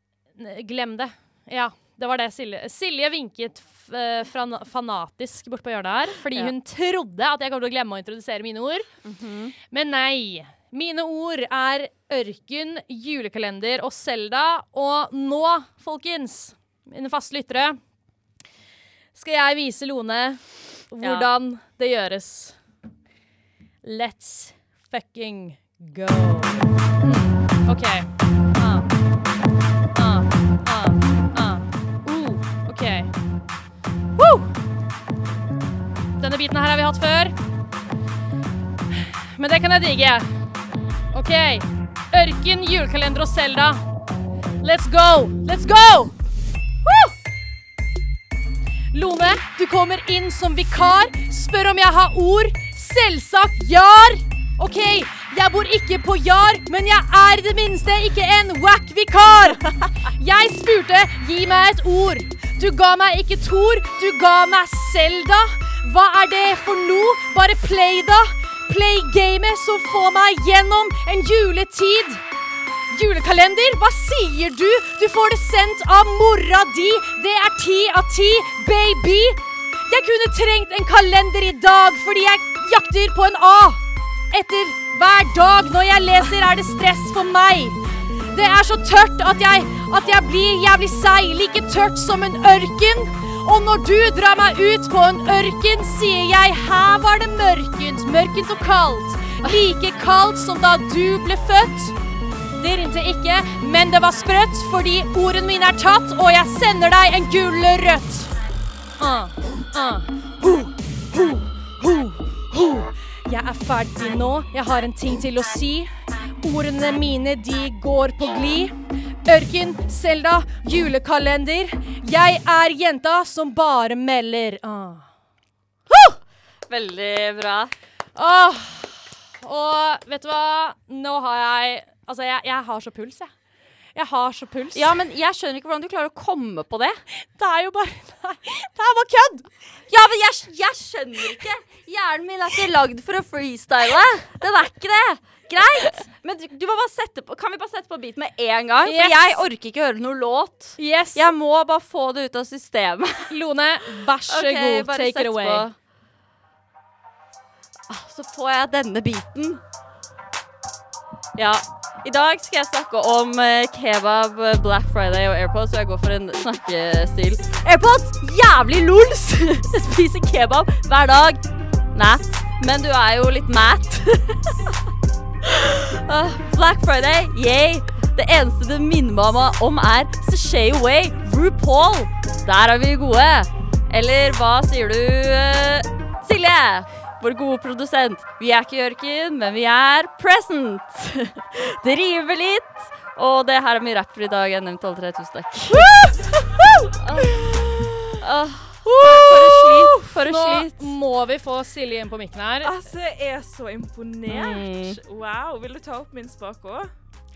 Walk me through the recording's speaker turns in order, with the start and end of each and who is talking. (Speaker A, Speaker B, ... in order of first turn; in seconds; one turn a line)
Speaker A: 0.4-8.9
Speaker B: 9.0-9.5
Speaker A: 9.7-17.8
Speaker A: 19.1-22.6
Speaker B: 21.0-21.3
Speaker A: 23.8-28.9
Speaker A: 29.9-33.1
Speaker A: 34.2-34.5
Speaker A: 36.2-37.4
Speaker A: 38.9-40.3
Speaker A: 41.1-43.8
Speaker A: 44.6-46.1
Speaker A: 46.8-47.1
Speaker A: 48.9-72.2
Speaker A: 72.9-102.0
Speaker A: 102.5-108.3
Speaker A: 109.0-125.1
Speaker B: 126.7-127.7
Speaker A: 128.1-133.3
Speaker A: 133.9-134.9
Speaker B: 134.7-137.0
Speaker A: 137.1-139.5
Speaker B: 139.9-153.4
Speaker A: 148.8-149.4
Speaker A: 150.8-151.3
Speaker A: 153.3-155.7
Speaker B: 154.2-155.7
Speaker B: 157.9-159.6
Speaker B: 161.3-174.8
Speaker B: 175.4-196.0
Speaker A: 195.7-196.8
Speaker B: 196.9-197.6
Speaker B: 198.2-200.9
Speaker A: 199.3-202.7
Speaker C: 202.6-206.9
Speaker B: 204.3-205.0